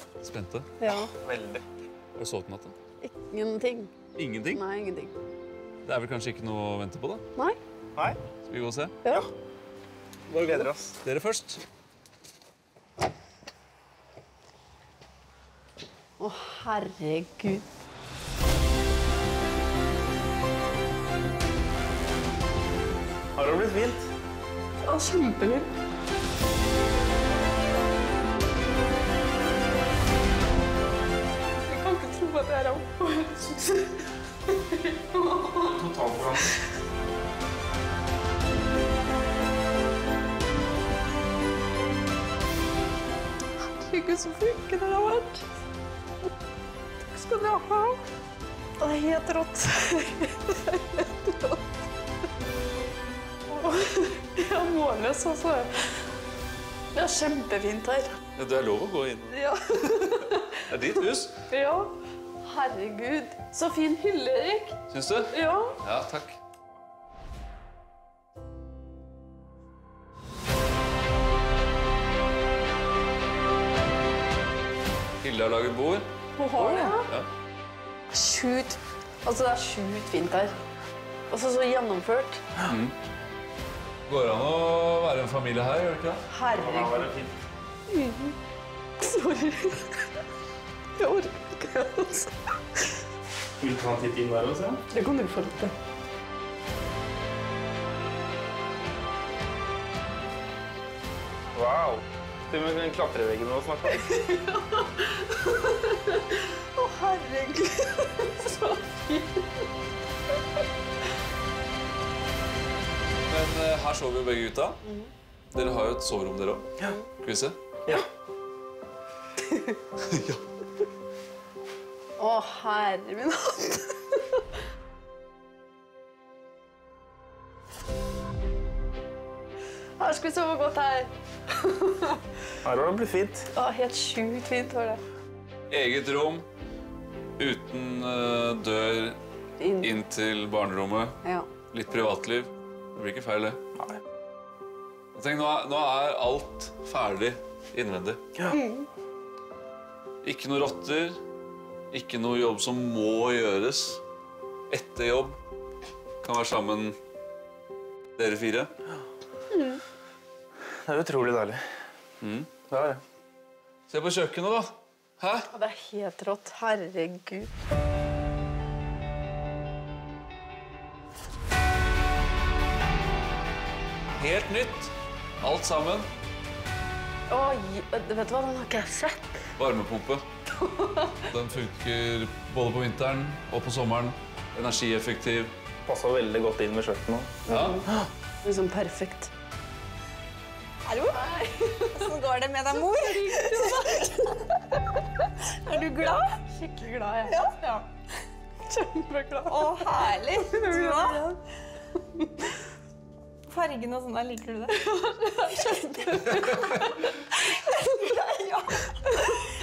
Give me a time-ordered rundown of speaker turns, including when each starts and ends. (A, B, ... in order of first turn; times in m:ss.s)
0:00.2-0:00.7 A
0:00.8-0:01.1 B
0:00.9-0:01.6 C
0:02.2-0:02.7 A
0:03.0-0:03.9 B
0:04.2-0:04.6 A
0:04.5-0:05.1 B
0:05.8-0:07.2 A
0:08.4-0:09.0 A
0:10.3-0:11.0 C
0:11.0-0:11.6 A
0:16.2-0:17.6 B
0:23.3-0:24.1 C
0:24.8-0:25.7 B
0:31.7-0:35.8 B
0:35.6-0:36.5 C
0:43.6-0:45.4 B
0:47.0-0:48.0 B
0:48.8-0:51.6 B
0:53.5-0:56.0 B
0:56.9-0:58.2 B
0:58.4-0:59.4 A
0:59.3-1:00.7 B
1:00.7-1:01.3 A
1:01.5-1:04.8 B
1:04.9-1:06.4 A
1:05.3-1:05.8 B
1:15.2-1:17.3 A
1:16.4-1:17.1 B
1:18.1-1:20.6 B
1:21.3-1:22.4 B
1:22.6-1:22.9 A
1:24.1-1:26.2 A
1:26.3-1:27.1 B
1:26.5-1:27.4 C
1:27.9-1:28.4 B
1:29.0-1:30.1 B
1:31.0-1:32.5 B
1:33.6-1:34.8 C
1:34.9-1:35.8 B
1:41.5-1:44.0 C
1:43.9-1:49.6 B
1:53.3-1:54.8 A
1:54.8-1:55.1 B
1:55.5-1:56.7 A
1:57.2-1:57.6 A
2:00.1-2:00.4 A
2:02.2-2:04.2 B
2:10.0-2:12.2 B
2:12.6-2:13.5 C
2:13.5-2:15.0 B
2:15.7-2:16.4 A
2:17.4-2:19.2 A
2:19.6-2:19.9 B
2:19.8-2:21.2 A
2:21.2-2:21.5 B
2:21.7-2:23.6 A
2:25.1-2:28.2 A
2:28.5-2:28.8 B
2:30.2-2:31.2 A
2:31.9-2:34.0 A
2:34.7-2:35.4 A
2:36.2-2:37.0 A
2:38.2-2:38.7 A
2:39.5-2:39.8 B
2:40.8-2:41.6 C
2:42.2-2:42.5 A
2:42.7-2:43.0 C
2:43.9-2:45.5 A
2:45.5-2:47.5 B
2:54.2-2:56.1 A
2:57.3-2:59.4 B
2:59.6-3:00.2 A
3:00.5-3:01.2 B
3:01.3-3:05.5 A
3:05.8-3:07.3 C
3:07.5-3:09.3 B
3:07.5-3:07.8 A
3:10.9-3:11.2 D
3:11.1-3:12.1 B
3:11.9-3:14.2 D
3:12.7-3:15.2 B
3:15.4-3:16.4 D
3:16.4-3:17.5 B
3:17.2-3:17.8 D
3:18.7-3:21.4 B
3:19.5-3:21.3 D
3:23.4-3:24.8 D
3:24.7-3:27.2 B
3:27.4-3:29.5 D